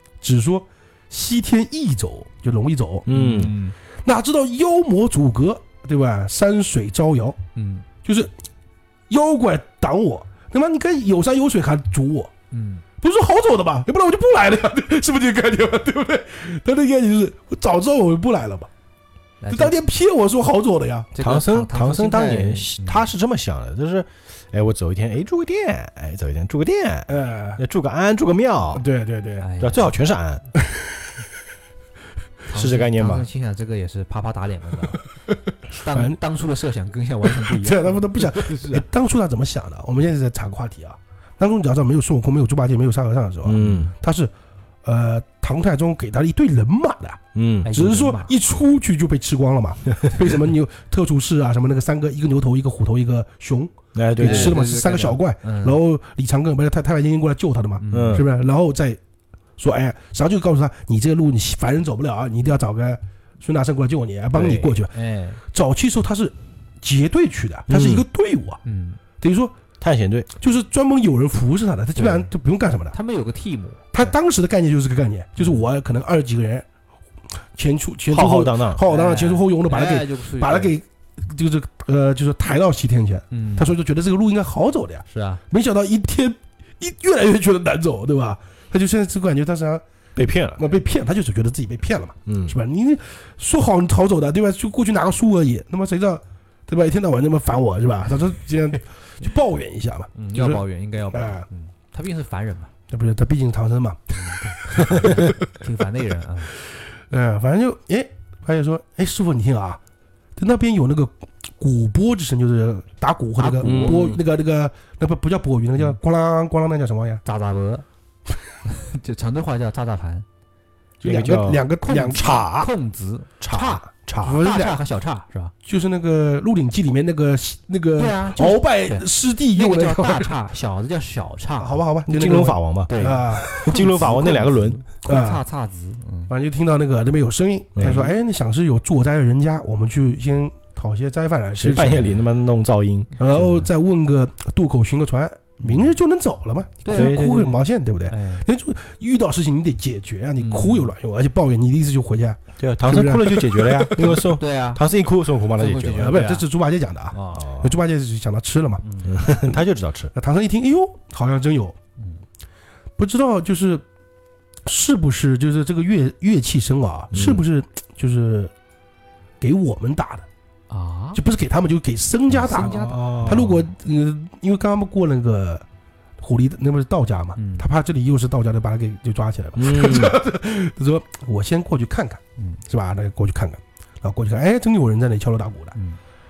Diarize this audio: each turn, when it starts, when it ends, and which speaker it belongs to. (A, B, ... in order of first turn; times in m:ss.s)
0:00.2-0:03.1 A
0:03.1-0:03.5 B
0:03.1-0:03.8 C
0:04.0-0:07.4 A
0:07.6-0:07.9 C
0:08.0-0:08.3 A
0:09.1-0:12.3 A
0:12.5-0:12.8 C
0:13.0-0:18.7 A
0:19.4-0:19.8 C
0:19.5-0:21.1 A
0:21.1-0:23.1 C
0:21.2-0:28.8 B
0:27.1-0:27.6 A
0:28.7-0:29.5 A
0:29.4-0:29.9 C
0:29.6-0:30.4 B
0:30.6-0:31.1 A
0:32.5-0:35.0 C
0:32.5-0:33.3 B
0:35.7-0:38.8 C
0:35.9-0:36.2 A
0:37.2-0:44.3 A
0:43.4-0:43.9 B
0:43.6-0:43.9 C
0:44.8-0:59.0 A
0:47.4-0:47.7 B
0:47.6-0:48.3 C
0:54.0-0:54.6 B
0:54.2-0:55.8 C
0:57.8-0:58.2 C
0:57.9-0:58.3 B
0:59.6-1:05.0 A
1:04.4-1:05.4 C
1:04.4-1:04.7 B
1:05.5-1:08.6 A
1:07.7-1:08.0 B
1:08.6-1:09.0 C
1:09.2-1:09.6 A
1:09.8-1:10.3 B
1:10.4-1:13.0 A
1:12.0-1:12.3 C
1:12.9-1:13.8 C
1:13.9-1:16.7 A
1:15.4-1:15.6 C
1:17.6-1:29.8 A
1:18.1-1:18.8 B
1:18.9-1:20.7 C
1:23.3-1:23.7 C
1:25.1-1:25.4 C
1:30.2-1:30.6 B
1:30.6-1:41.5 A
1:32.3-1:32.6 B
1:40.2-1:42.7 C
1:42.9-1:45.5 A
1:44.1-1:46.5 C
1:47.0-1:49.8 A
1:50.4-1:57.2 A
1:53.4-1:54.0 C
1:53.6-1:54.2 B
1:57.2-1:57.8 C
1:58.6-2:00.3 C
2:01.0-2:02.4 A
2:01.0-2:02.7 B
2:01.9-2:05.5 C
2:03.4-2:04.4 B
2:04.2-2:04.8 A
2:05.6-2:10.3 A
2:08.0-2:11.8 C
2:11.6-2:15.4 A
2:12.1-2:14.8 B
2:12.9-2:16.3 C
2:16.3-2:22.1 A
2:17.8-2:18.1 B
2:21.6-2:23.3 B
2:23.2-2:34.3 A
2:25.7-2:25.9 B
2:26.8-2:28.5 C
2:26.9-2:27.5 B
2:30.4-2:30.9 C
2:32.6-2:36.2 B
2:34.0-2:34.8 C
2:35.6-2:36.5 C
2:36.0-2:39.6 A
2:37.1-2:37.6 C
2:37.4-2:37.7 B
2:38.8-2:39.2 C
2:39.0-2:40.1 B
2:40.1-2:41.8 A
2:43.0-2:43.8 A
2:44.6-2:48.5 A
2:47.1-2:47.4 B
2:49.4-2:50.3 A
2:50.7-2:51.2 C
2:51.2-2:55.6 A
2:52.3-2:53.5 C
2:52.5-2:53.6 B
2:56.2-3:05.8 A
2:57.4-2:57.7 C
2:59.6-3:00.2 B